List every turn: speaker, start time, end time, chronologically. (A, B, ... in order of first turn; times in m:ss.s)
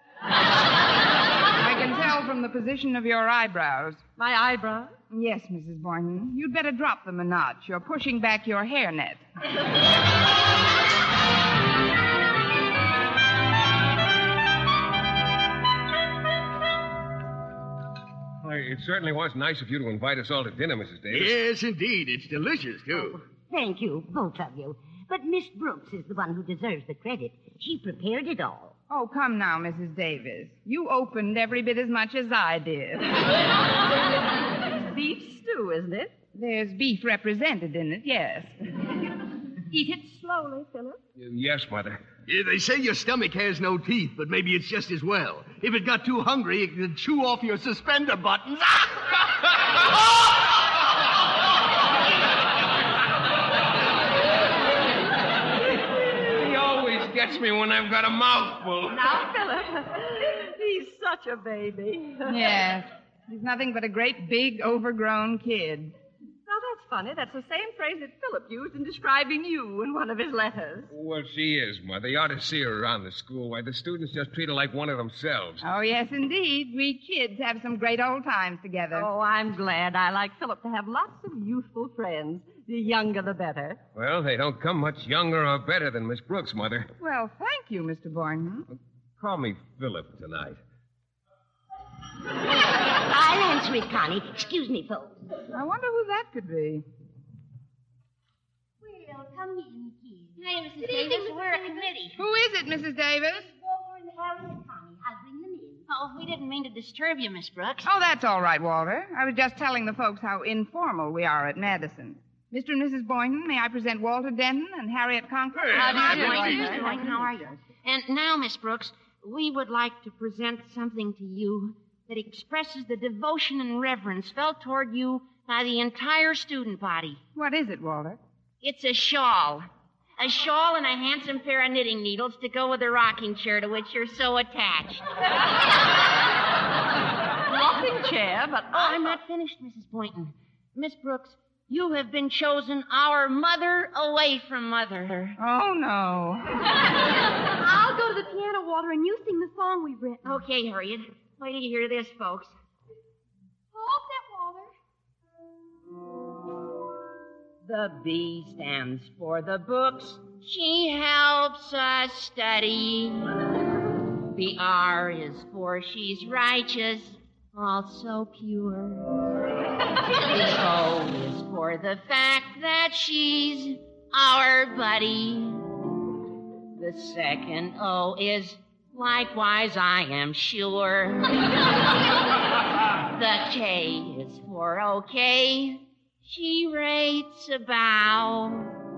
0:01.6-0:04.0 A
0:04.2-0:04.9 B
0:05.1-0:09.2 A
0:18.4-0:21.4 C
0:21.1-0:23.2 D
0:23.1-0:28.7 E
0:28.9-0:33.2 A
0:34.6-0:36.1 B
0:36.3-0:38.5 A
0:39.7-0:41.0 B
0:41.2-0:42.0 C
0:42.3-0:49.1 D
0:56.0-0:59.2 C
0:58.9-1:02.4 B
1:02.2-1:05.9 A
1:06.5-1:10.9 B
1:10.9-1:15.6 C
1:15.6-1:19.1 A
1:18.9-1:23.8 B
1:23.9-1:26.9 C
1:27.0-1:28.7 A
1:29.2-1:30.6 C
1:33.0-1:35.2 E
1:35.5-1:36.8 A
1:38.8-1:42.2 E
1:40.4-1:41.8 F
1:42.1-1:43.5 A
1:43.3-1:45.9 E
1:45.9-1:47.9 F
1:47.8-1:56.9 A
1:55.6-1:56.7 D
1:55.7-2:07.2 F
1:55.8-1:57.2 B
2:07.3-2:08.2 A
2:08.6-2:09.7 F
2:10.2-2:15.0 F
2:17.5-2:19.2 B
2:18.7-2:25.4 F
2:25.4-2:26.6 A
2:27.6-2:30.4 G
2:30.2-2:32.5 F
2:33.7-2:34.7 G
2:37.6-2:43.3 F
2:44.3-2:49.1 F
2:50.3-2:55.6 F
2:56.8-3:01.4 F
3:03.1-3:08.7 F